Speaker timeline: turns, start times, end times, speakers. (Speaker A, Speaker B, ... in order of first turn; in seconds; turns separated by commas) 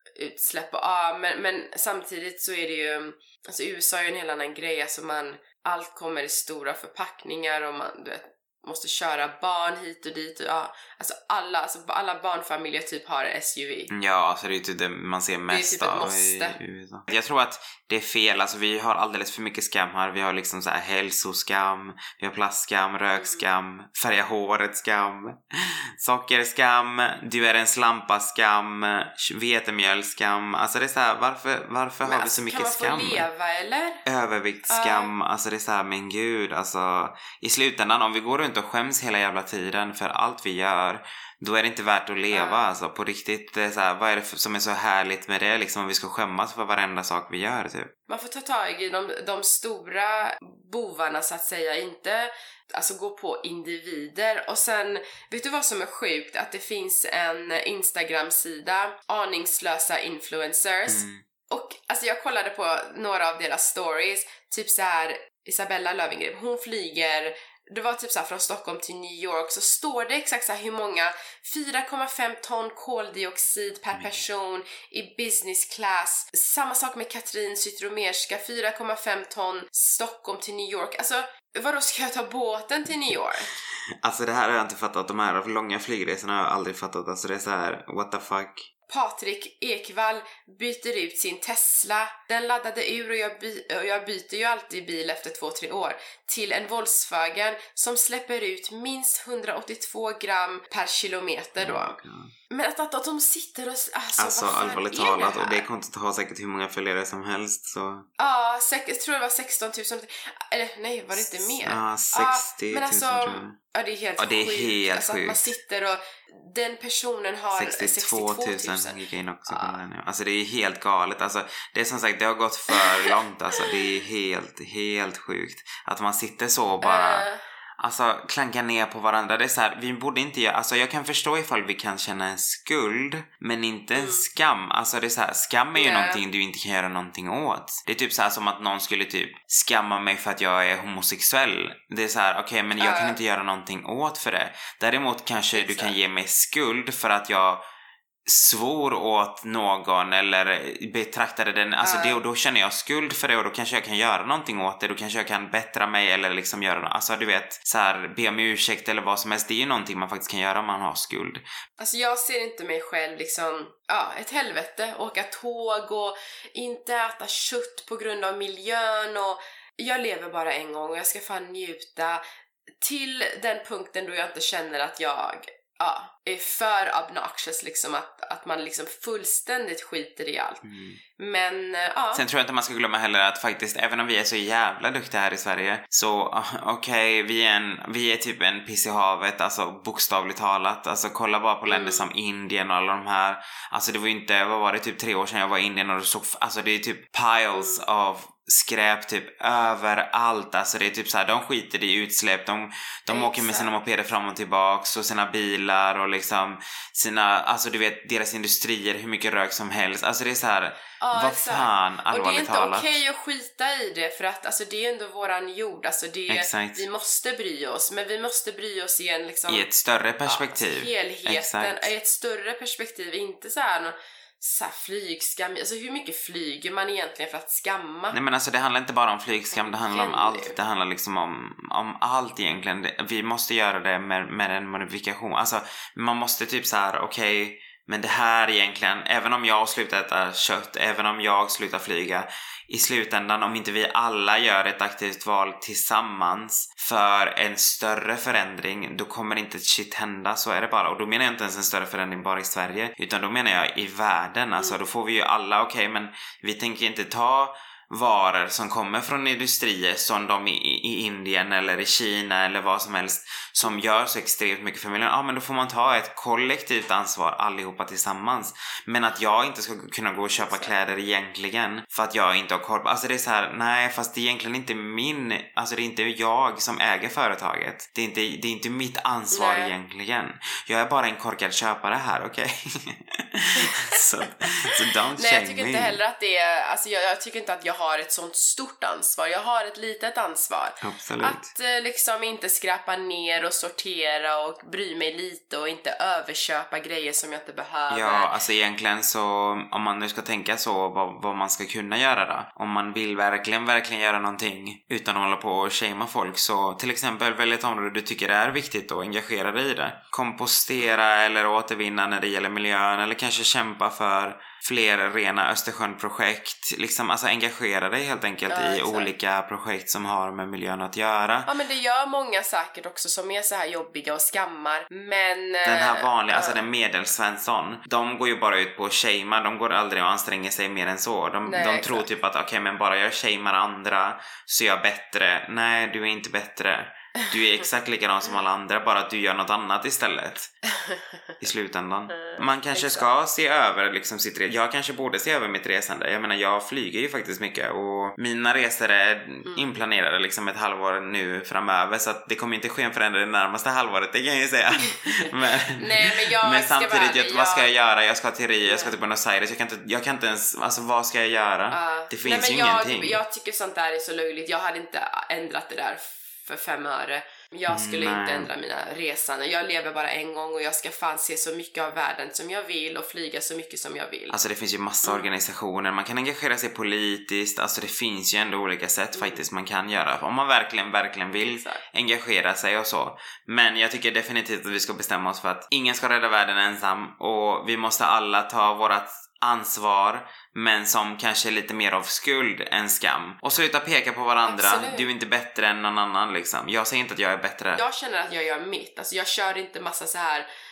Speaker A: 0.1-13.9, Speaker B: 13.9-33.2, Speaker A: 15.5-16.6, Speaker A: 23.1-23.4, Speaker A: 32.0-34.0, Speaker B: 34.0-47.9, Speaker A: 34.7-35.1, Speaker A: 42.3-42.6, Speaker A: 48.1-83.5, Speaker B: 60.9-61.2, Speaker B: 73.9-74.2, Speaker B: 83.6-88.7, Speaker A: 88.9-102.0, Speaker B: 101.6-102.3, Speaker A: 102.5-105.6, Speaker B: 104.2-108.1, Speaker A: 108.2-119.8, Speaker B: 111.1-113.6, Speaker B: 114.2-115.5, Speaker B: 117.5-127.2, Speaker A: 122.7-123.8, Speaker A: 126.8-127.4, Speaker B: 127.8-147.6, Speaker A: 133.9-134.2, Speaker A: 135.7-136.2, Speaker A: 142.8-143.2, Speaker A: 145.5-145.9, Speaker B: 148.2-161.4, Speaker A: 151.8-152.2, Speaker A: 161.8-172.2, Speaker A: 172.8-180.6, Speaker B: 180.6-181.0, Speaker A: 181.2-182.2, Speaker B: 182.1-213.0, Speaker A: 191.7-192.1, Speaker A: 197.5-197.8, Speaker A: 203.1-203.7, Speaker A: 211.0-219.7, Speaker B: 216.3-216.8, Speaker B: 219.5-221.9, Speaker A: 220.2-228.2, Speaker B: 228.1-286.0, Speaker A: 229.5-230.6, Speaker A: 270.4-270.7, Speaker A: 279.3-279.7, Speaker A: 283.6-284.0, Speaker A: 284.8-298.3, Speaker B: 290.8-291.5, Speaker B: 297.9-321.5, Speaker A: 318.5-319.1, Speaker A: 321.4-326.6, Speaker B: 325.6-340.5, Speaker A: 331.4-332.0, Speaker A: 340.7-341.3, Speaker B: 341.4-363.2, Speaker A: 342.1-343.1, Speaker A: 355.8-357.7, Speaker A: 358.6-358.9, Speaker A: 361.7-374.4, Speaker B: 367.7-368.5, Speaker B: 374.3-397.8, Speaker A: 381.4-381.8, Speaker A: 394.4-395.1, Speaker A: 397.8-400.5